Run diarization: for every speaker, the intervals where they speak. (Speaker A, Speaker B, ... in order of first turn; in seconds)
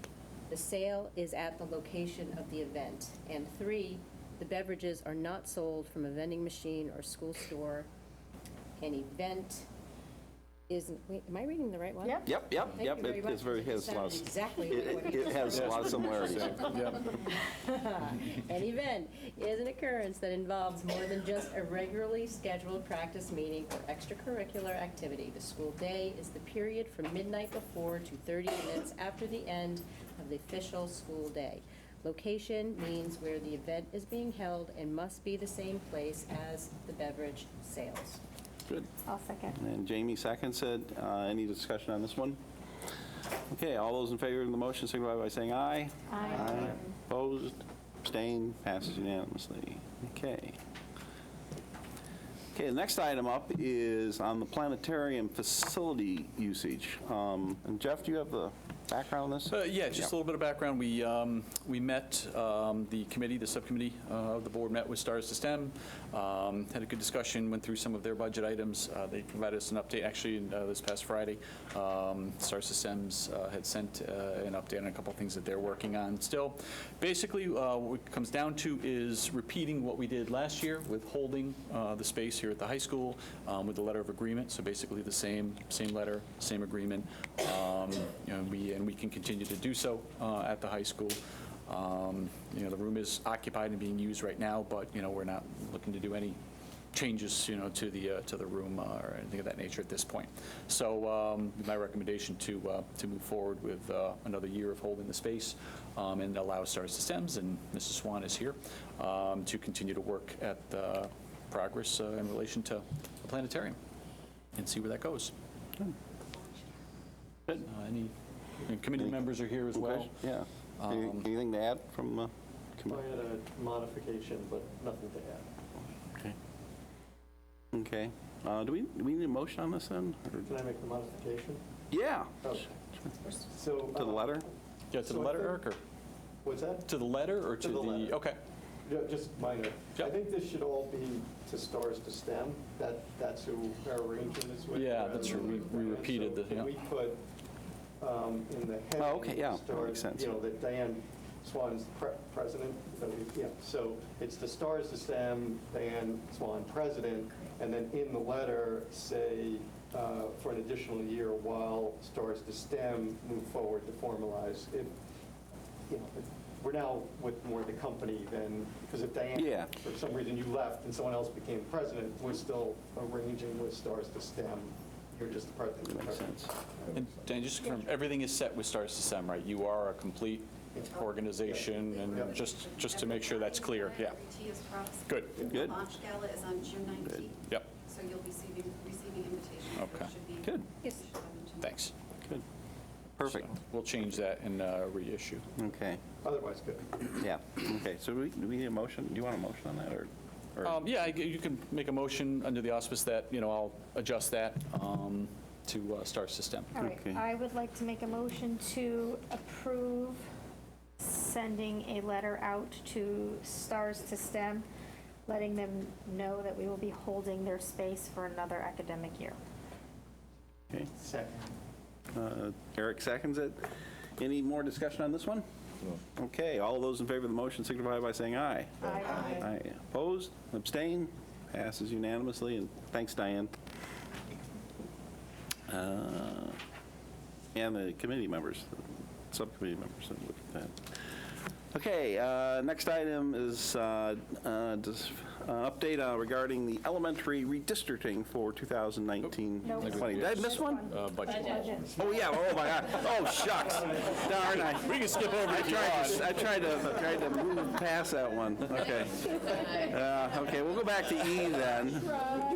Speaker A: 0.5-7.9, 8.8-9.7, 10.7-38.2
Speaker B: 12.0-12.3, 39.0-39.6, 46.1-46.8, 206.8-210.2, 211.0-214.7, 215.3-219.4, 228.9-229.5, 249.6-251.9
Speaker C: 12.3-16.6, 39.5-42.4, 43.5-50.6, 52.5-60.1, 119.7-123.0, 127.7-130.5, 131.9-132.5, 133.9-134.4, 149.0-150.3, 169.3-169.7, 175.9-176.5, 185.5-185.8, 193.2-193.5, 195.6-196.0, 197.2-200.8, 206.8-207.2, 222.1-225.5, 226.0-233.6, 235.7-236.6, 237.6-240.9, 241.7-250.9, 251.9-262.3
Speaker D: 15.5-17.1, 59.5-96.4, 96.9-113.8, 114.5-115.3, 117.7-120.2, 120.8-121.3, 134.9-135.8, 136.9-138.4, 144.7-146.7, 176.9-184.2, 185.1-185.5, 187.4-187.7, 189.8-190.1, 191.6-191.9, 193.2-195.5, 200.6-206.7, 249.2-251.9, 254.4-256.5
Speaker E: 122.9-125.5, 130.4-131.6, 132.4-132.7, 133.4-134.4, 135.0-135.6, 136.4-136.9, 137.6-138.2, 138.8-147.2, 148.0-164.9, 165.9-177.2, 180.7-182.3, 196.2-197.1, 221.0-221.5
Speaker F: 180.9-191.8